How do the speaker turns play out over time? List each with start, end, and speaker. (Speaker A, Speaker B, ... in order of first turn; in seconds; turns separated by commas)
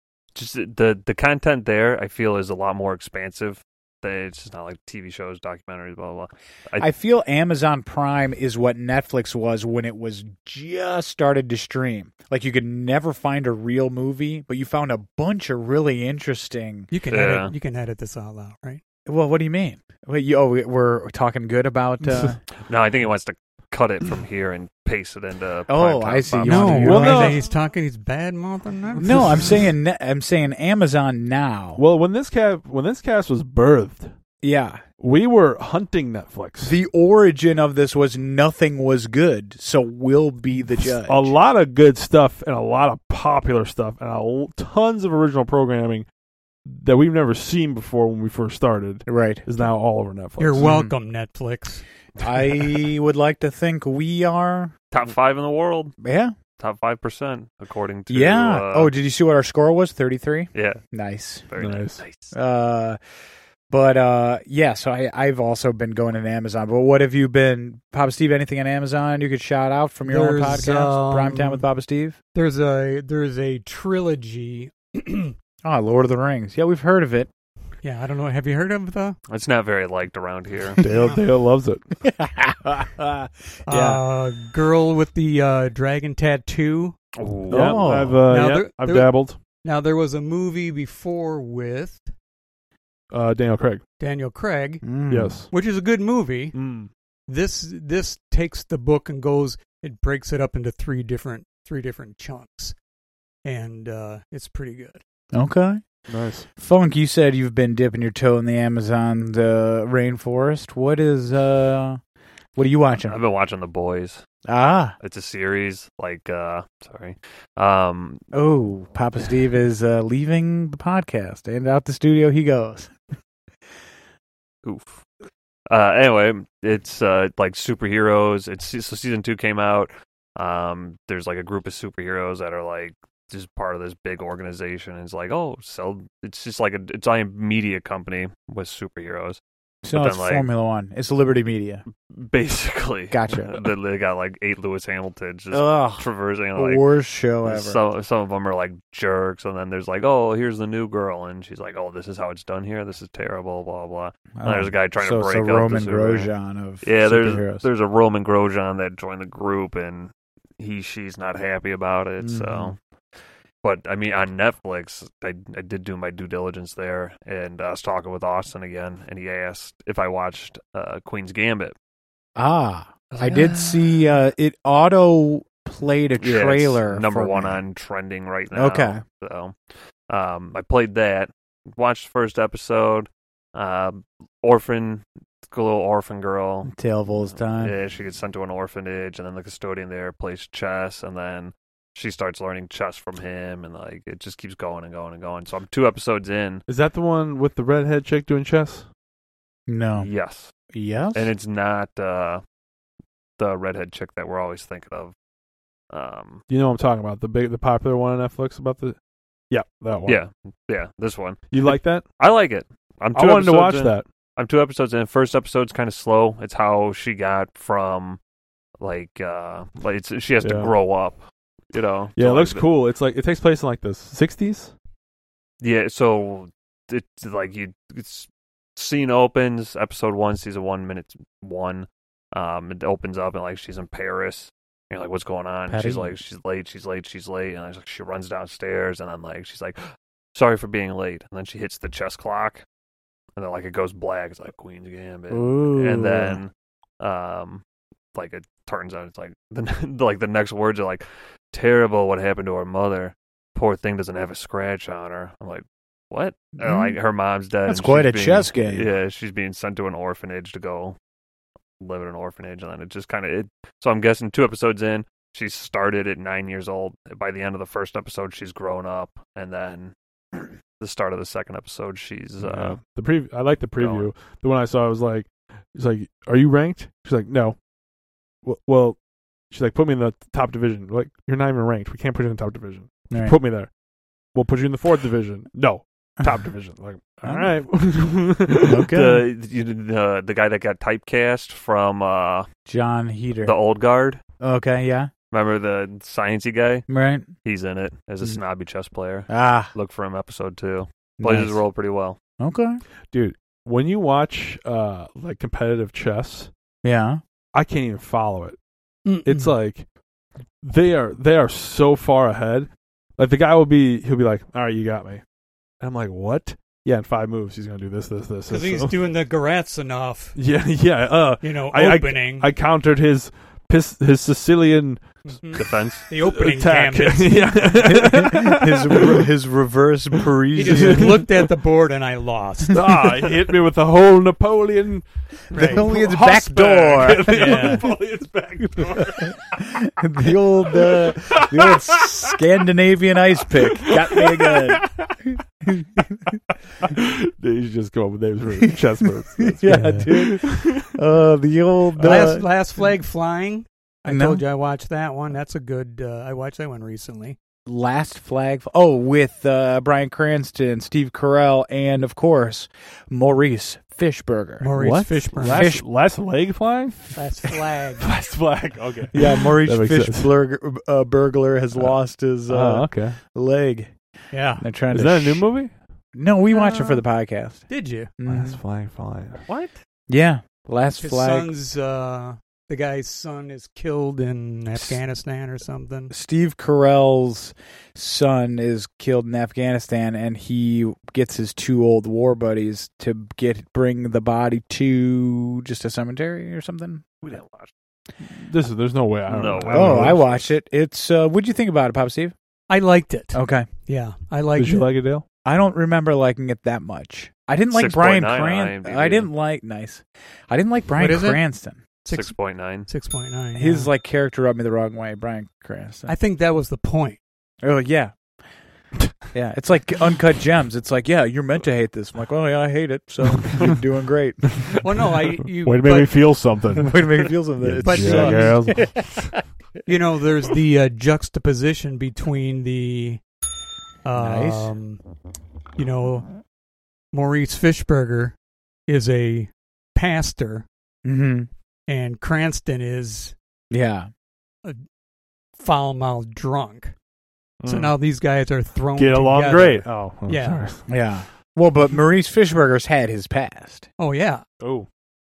Speaker A: 0.3-6.9, Speaker B: 6.8-16.9, Speaker C: 16.9-18.8, Speaker A: 17.1-17.5, Speaker B: 19.1-22.4, Speaker A: 22.7-26.8, Speaker B: 25.7-27.4, Speaker C: 26.4-29.6, Speaker D: 26.7-27.4, Speaker B: 29.0-31.8, Speaker D: 31.8-34.1, Speaker B: 34.4-34.8, Speaker D: 35.0-36.8, Speaker B: 36.6-41.4, Speaker D: 40.8-46.1, Speaker D: 46.7-50.7, Speaker B: 49.1-49.5, Speaker C: 50.4-51.8, Speaker B: 50.6-50.9, Speaker B: 52.2-54.7, Speaker A: 54.9-55.9, Speaker B: 56.0-56.3, Speaker A: 56.6-58.9, Speaker B: 58.1-61.5, Speaker A: 60.5-60.8, Speaker A: 61.5-62.3, Speaker D: 61.6-62.0, Speaker B: 62.3-63.0, Speaker B: 63.7-72.2, Speaker C: 70.1-71.7, Speaker C: 72.3-75.3, Speaker B: 75.6-77.3, Speaker C: 77.8-79.2, Speaker A: 79.3-80.8, Speaker D: 80.8-81.8, Speaker B: 82.0-84.0, Speaker C: 83.7-87.0, Speaker A: 87.2-87.9, Speaker B: 87.5-88.2, Speaker D: 87.5-89.4, Speaker C: 88.3-92.1, Speaker D: 93.1-93.8, Speaker C: 94.0-94.8, Speaker B: 94.8-95.4, Speaker D: 95.1-95.5, Speaker C: 95.5-96.6, Speaker D: 96.5-96.9, Speaker C: 97.3-102.8, Speaker C: 103.5-105.0, Speaker B: 105.3-105.8, Speaker D: 106.1-106.5, Speaker B: 106.6-112.0, Speaker B: 112.6-113.2, Speaker A: 113.0-114.2, Speaker B: 114.5-115.0, Speaker A: 115.0-118.2, Speaker B: 118.3-122.9, Speaker A: 124.6-125.0, Speaker A: 125.7-139.4, Speaker B: 139.8-141.8, Speaker A: 139.9-140.5, Speaker A: 142.1-146.8, Speaker B: 143.1-143.7, Speaker B: 145.5-147.8, Speaker A: 147.4-156.3, Speaker B: 154.4-157.7, Speaker A: 156.8-162.8, Speaker B: 162.2-162.7, Speaker A: 163.6-171.7, Speaker B: 172.4-177.6, Speaker A: 173.1-173.7, Speaker A: 176.2-179.6, Speaker B: 178.5-179.0, Speaker A: 180.1-186.7, Speaker B: 186.6-187.8, Speaker A: 187.4-196.7, Speaker D: 196.7-198.9, Speaker B: 199.7-200.1, Speaker A: 200.0-200.5, Speaker B: 200.7-201.3, Speaker A: 201.1-202.4, Speaker A: 203.4-205.1, Speaker A: 205.9-206.4, Speaker D: 206.5-209.0, Speaker D: 209.5-210.2, Speaker A: 210.1-218.2, Speaker D: 211.5-212.0, Speaker D: 213.2-214.1, Speaker A: 218.8-221.2, Speaker D: 220.4-220.7, Speaker A: 221.7-222.7, Speaker D: 222.2-224.7, Speaker A: 225.6-239.8, Speaker B: 235.7-236.2, Speaker A: 240.3-242.6, Speaker A: 243.4-247.6, Speaker B: 245.3-246.4, Speaker A: 248.2-261.0, Speaker B: 256.6-257.0, Speaker B: 257.7-258.9, Speaker A: 261.8-269.9, Speaker A: 270.8-272.8, Speaker D: 272.4-277.6, Speaker A: 273.8-274.1, Speaker D: 278.4-279.0, Speaker D: 279.5-283.7, Speaker B: 283.1-283.4, Speaker D: 284.3-288.9, Speaker B: 287.2-287.5, Speaker B: 288.6-289.3, Speaker A: 288.9-292.5, Speaker B: 292.7-293.6, Speaker A: 293.4-294.2, Speaker B: 294.4-295.1, Speaker A: 295.3-296.9, Speaker B: 296.9-297.3, Speaker A: 297.4-302.2, Speaker B: 299.3-299.7, Speaker B: 301.2-301.6, Speaker B: 302.4-302.8, Speaker D: 303.1-306.5, Speaker B: 306.8-307.2, Speaker D: 307.5-308.6, Speaker C: 309.1-309.6, Speaker D: 309.2-309.9, Speaker D: 310.6-315.2, Speaker D: 315.8-319.0, Speaker C: 318.5-320.4, Speaker D: 320.4-325.2, Speaker C: 321.4-322.5, Speaker C: 325.3-328.1, Speaker A: 325.6-326.0, Speaker D: 326.0-329.3, Speaker B: 327.8-331.2, Speaker C: 330.6-332.8, Speaker D: 330.6-331.4, Speaker D: 332.7-339.5, Speaker C: 335.5-335.9, Speaker B: 335.6-337.9, Speaker C: 337.3-337.9, Speaker B: 338.6-346.4, Speaker D: 340.6-342.3, Speaker D: 343.6-345.1, Speaker D: 346.8-350.9, Speaker B: 349.4-352.5, Speaker C: 349.7-350.1, Speaker C: 352.0-357.4, Speaker D: 352.0-352.4, Speaker B: 354.1-354.4, Speaker B: 357.7-365.9, Speaker C: 364.6-365.7, Speaker D: 364.8-367.1, Speaker C: 367.1-368.1, Speaker D: 368.0-370.3, Speaker B: 369.1-373.9, Speaker D: 372.5-373.2, Speaker C: 374.3-374.6, Speaker B: 374.6-375.5, Speaker D: 374.9-375.8, Speaker B: 376.1-378.6, Speaker C: 376.5-377.0, Speaker C: 377.7-378.1, Speaker D: 378.2-379.5, Speaker A: 379.5-379.7, Speaker B: 380.1-381.5, Speaker C: 381.0-386.1, Speaker B: 384.8-385.0, Speaker B: 386.1-397.1, Speaker A: 397.2-397.7, Speaker D: 398.2-400.3, Speaker A: 399.3-400.4, Speaker B: 399.7-402.3, Speaker C: 402.7-404.9, Speaker B: 403.3-403.7, Speaker D: 404.6-405.2, Speaker B: 405.4-411.8, Speaker A: 407.7-409.3, Speaker C: 411.0-411.4, Speaker C: 412.0-412.4, Speaker A: 412.1-412.9, Speaker C: 412.9-413.9, Speaker B: 413.6-416.1, Speaker C: 416.1-417.2, Speaker B: 417.6-418.1, Speaker B: 419.3-424.8, Speaker C: 424.8-426.2, Speaker D: 425.6-429.0, Speaker B: 426.8-429.3, Speaker C: 427.8-428.6, Speaker C: 429.9-433.2, Speaker C: 434.0-435.0, Speaker B: 434.1-434.8, Speaker C: 435.8-436.3, Speaker C: 437.1-438.4, Speaker C: 438.9-440.7, Speaker B: 441.0-441.5, Speaker C: 441.9-443.4, Speaker B: 443.7-444.1, Speaker C: 445.6-446.9, Speaker D: 447.6-448.0, Speaker C: 447.7-450.6, Speaker D: 449.0-450.8, Speaker B: 450.9-453.9, Speaker C: 454.0-454.4, Speaker D: 454.6-454.9